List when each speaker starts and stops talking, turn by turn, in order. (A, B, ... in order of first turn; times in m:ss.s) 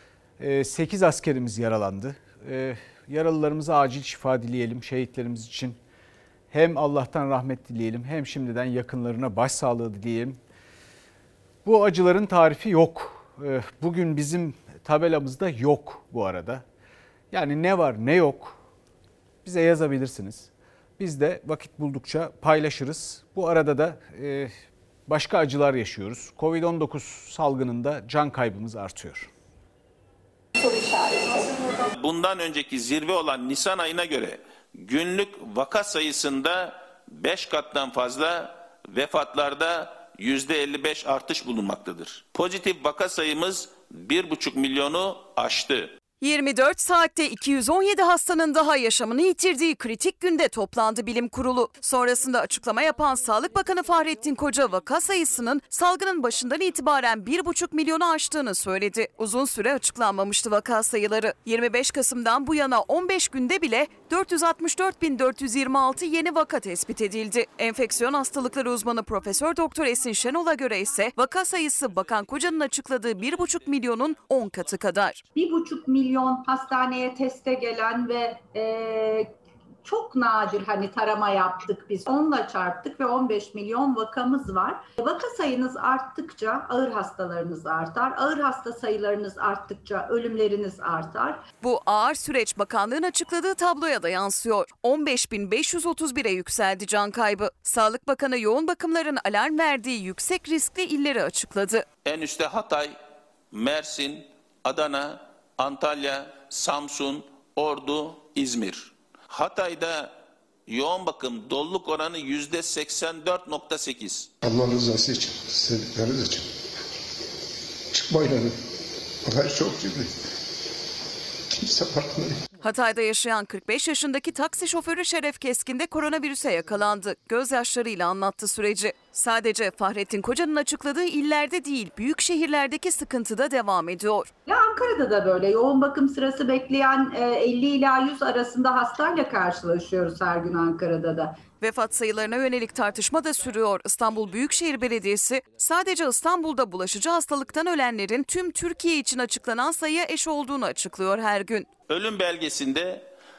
0:00.4-0:05.8 A
0:06.5-0:10.4 A
0:11.6-0:16.6 A
0:17.3-0:18.6 A
0:19.4-0:24.5 A
0:25.1-0:29.3 A
0:31.9-0:45.9 B
0:46.2-1:15.2 C
1:15.4-1:19.3 D
1:19.8-1:31.5 D
1:31.6-1:41.9 C
1:42.0-1:43.0 B
1:43.5-1:50.1 B
1:50.7-1:54.3 B
1:54.4-1:56.6 E
1:57.9-1:58.6 E
1:59.2-2:00.3 E
2:01.6-2:02.5 E
2:02.6-2:14.3 C
2:14.5-2:21.5 D
2:21.6-2:31.7 C
2:31.9-2:33.1 B